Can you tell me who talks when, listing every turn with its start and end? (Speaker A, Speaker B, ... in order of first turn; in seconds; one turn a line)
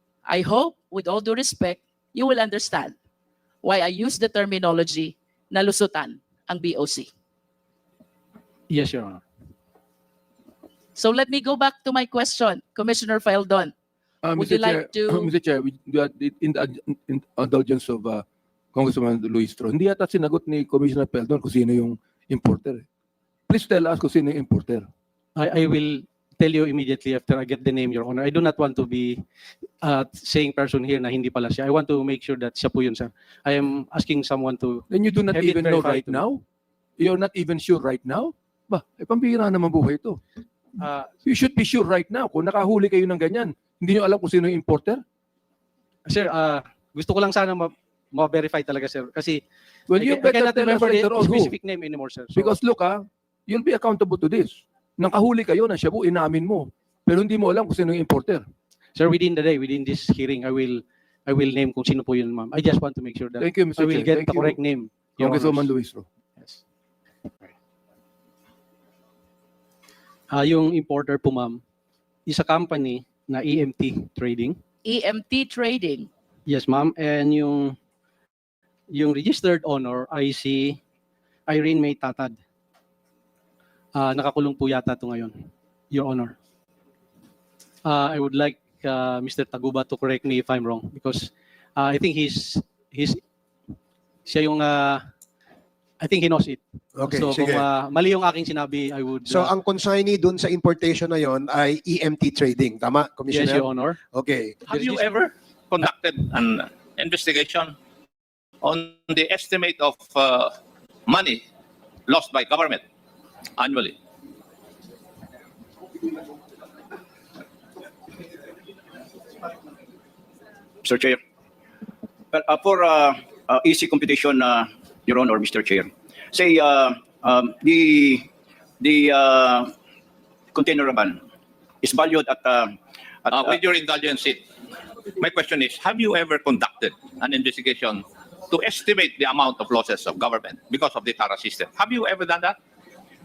Speaker A: 0.3-2.9
Speaker A: 3.6-7.1
Speaker B: 8.7-9.2
Speaker A: 10.9-13.7
Speaker C: 14.2-18.2
Speaker A: 14.4-15.3
Speaker C: 18.7-22.8
Speaker C: 23.5-24.9
Speaker B: 25.4-29.2
Speaker B: 29.8-36.3
Speaker C: 34.9-36.4
Speaker C: 37.0-40.2
Speaker B: 40.8-41.1
Speaker C: 41.2-45.0
Speaker B: 46.0-49.4
Speaker C: 49.9-51.5
Speaker B: 49.9-52.5
Speaker C: 52.3-58.4
Speaker B: 59.0-65.7
Speaker C: 63.4-64.6
Speaker C: 65.2-66.1
Speaker B: 70.3-71.6
Speaker B: 72.3-74.6
Speaker A: 74.8-76.1
Speaker B: 76.5-77.8
Speaker B: 78.9-80.8
Speaker B: 81.5-82.3
Speaker B: 83.9-86.3
Speaker B: 87.8-93.2
Speaker B: 94.2-95.0
Speaker B: 96.0-99.5
Speaker D: 96.9-97.7
Speaker D: 99.3-104.6
Speaker B: 103.3-104.0
Speaker E: 104.7-107.7
Speaker B: 104.7-105.1
Speaker E: 108.6-110.5
Speaker E: 111.1-111.4
Speaker E: 112.1-112.8
Speaker E: 113.6-113.9
Speaker F: 120.8-121.2
Speaker F: 122.3-128.3
Speaker F: 128.8-129.7
Speaker F: 130.5-131.2
Speaker F: 131.8-132.7
Speaker F: 133.3-133.5
Speaker E: 133.3-134.4
Speaker E: 135.2-142.6